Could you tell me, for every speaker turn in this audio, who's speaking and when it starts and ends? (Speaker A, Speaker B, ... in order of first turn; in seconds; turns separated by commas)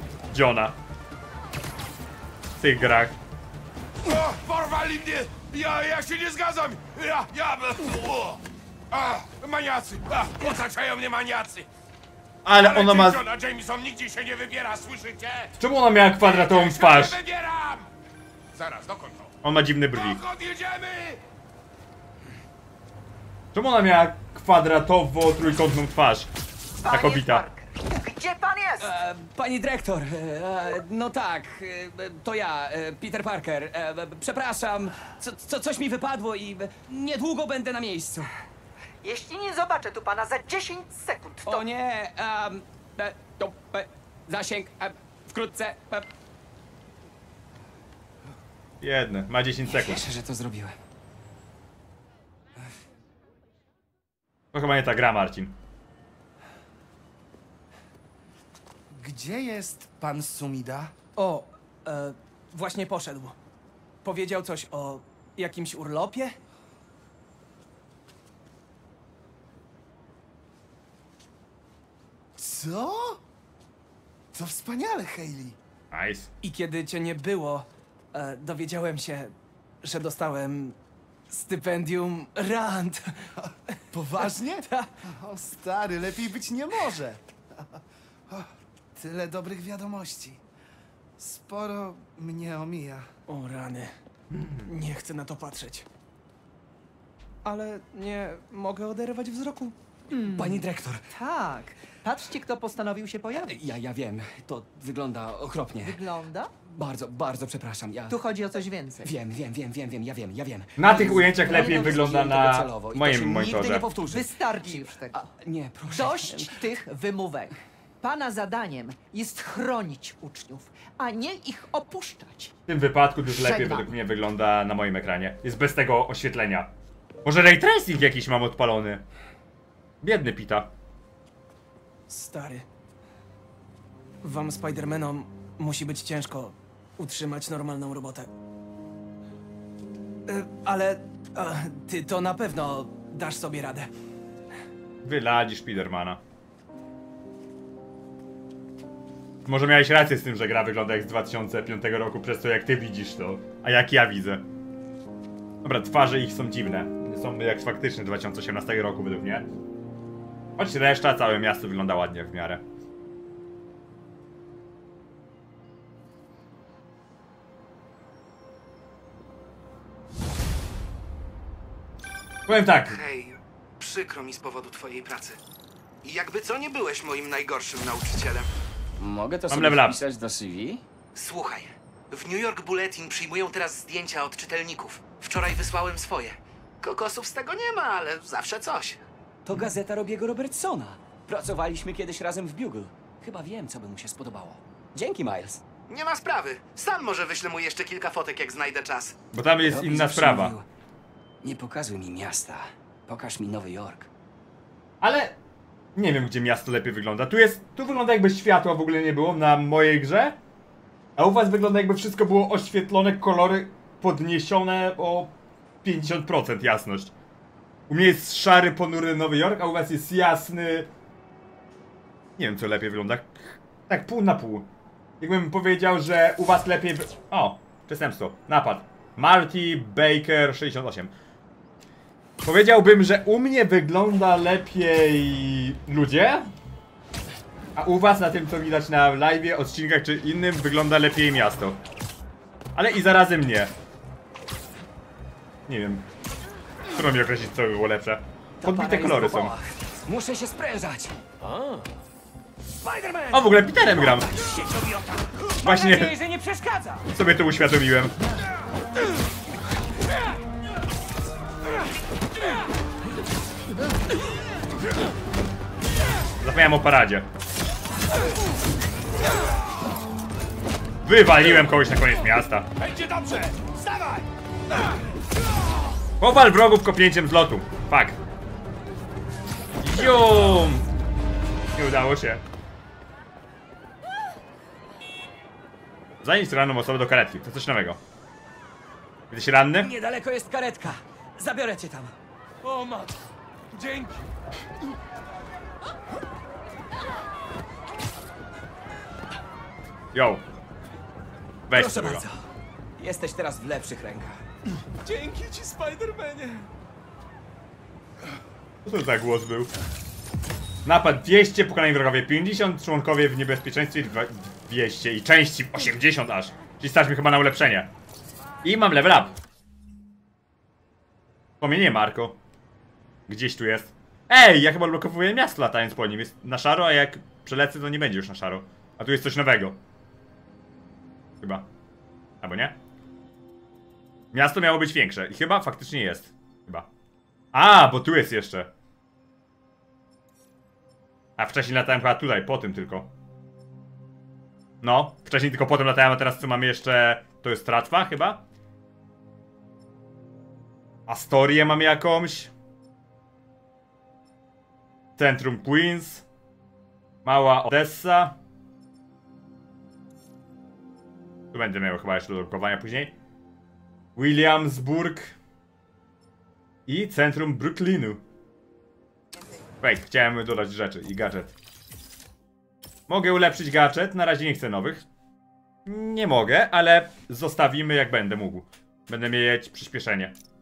Speaker A: 0.3-0.8, Speaker A: 2.6-3.2, Speaker B: 4.1-8.4, Speaker B: 8.9-11.7, Speaker A: 12.4-13.2, Speaker B: 12.5-15.5, Speaker A: 15.6-17.2, Speaker B: 16.2-17.9, Speaker B: 18.5-19.3, Speaker A: 19.4-20.2, Speaker B: 19.9-21.2, Speaker A: 23.5-26.3, Speaker C: 26.8-28.9, Speaker A: 26.9-27.5, Speaker D: 28.8-38.3, Speaker C: 39.0-41.7, Speaker D: 41.4-46.1, Speaker A: 48.8-50.0, Speaker D: 49.6-50.8, Speaker A: 54.5-55.5, Speaker E: 58.9-61.0, Speaker F: 61.2-63.4, Speaker F: 64.0-66.4, Speaker E: 72.4-73.2, Speaker E: 74.3-75.6, Speaker A: 75.9-76.3, Speaker F: 76.4-80.8, Speaker F: 81.3-83.2, Speaker E: 83.9-87.2, Speaker F: 84.2-84.9, Speaker E: 88.3-90.4, Speaker E: 91.2-93.1, Speaker F: 93.3-93.9, Speaker F: 94.6-95.9, Speaker F: 97.5-99.8, Speaker C: 100.1-103.6, Speaker D: 100.3-101.1, Speaker D: 103.4-106.0, Speaker C: 105.8-106.5, Speaker D: 106.7-108.2, Speaker C: 108.1-109.1, Speaker D: 109.0-116.6, Speaker A: 110.8-113.9, Speaker C: 111.4-112.0, Speaker C: 114.0-115.3, Speaker C: 115.9-122.5, Speaker A: 122.7-126.7, Speaker C: 123.3-123.9, Speaker A: 127.2-129.1, Speaker A: 130.0-130.7, Speaker F: 132.1-132.7, Speaker F: 134.2-138.3, Speaker F: 140.3-143.9, Speaker A: 145.0-146.2, Speaker A: 149.5-154.5, Speaker A: 155.6-159.5, Speaker A: 160.6-162.6, Speaker A: 172.5-173.0, Speaker G: 172.9-175.4, Speaker G: 176.0-178.5, Speaker D: 179.0-180.8, Speaker A: 179.5-180.0, Speaker G: 181.2-189.0, Speaker D: 189.5-195.6, Speaker G: 195.9-199.2, Speaker A: 199.3-200.6, Speaker D: 199.6-200.7, Speaker D: 201.4-204.1, Speaker A: 205.0-205.4, Speaker A: 206.0-210.4, Speaker A: 211.2-215.3, Speaker A: 215.8-217.1, Speaker A: 217.9-220.9, Speaker A: 222.4-224.7, Speaker A: 225.2-231.1, Speaker A: 232.4-236.5, Speaker A: 237.8-241.8, Speaker A: 242.8-243.7, Speaker A: 245.7-246.1, Speaker A: 246.9-249.5, Speaker D: 248.6-251.2, Speaker A: 253.3-254.3, Speaker A: 255.6-256.2, Speaker D: 256.6-257.0, Speaker A: 257.1-258.2, Speaker A: 266.4-267.3, Speaker A: 271.1-272.7, Speaker B: 272.8-274.2, Speaker A: 276.2-278.2, Speaker A: 279.8-280.9, Speaker A: 281.8-282.4, Speaker A: 286.2-288.0, Speaker A: 289.3-289.9, Speaker D: 289.8-292.1, Speaker B: 292.6-293.1, Speaker B: 293.7-294.2, Speaker A: 300.1-300.4, Speaker A: 301.7-302.2, Speaker D: 301.7-302.4, Speaker D: 303.0-304.4, Speaker B: 305.0-306.6, Speaker A: 308.9-309.7, Speaker A: 310.9-317.9, Speaker A: 318.6-319.4, Speaker A: 321.6-322.4, Speaker A: 323.3-329.8, Speaker A: 331.4-331.7, Speaker A: 332.4-332.8, Speaker A: 334.3-336.9, Speaker A: 337.5-338.7, Speaker A: 341.4-343.1, Speaker A: 344.8-348.4, Speaker A: 351.1-352.5, Speaker A: 355.2-356.2, Speaker A: 357.2-358.4, Speaker A: 361.5-363.1, Speaker A: 364.2-365.4, Speaker A: 366.9-368.2, Speaker A: 369.8-371.6, Speaker A: 373.1-375.1, Speaker A: 375.9-380.4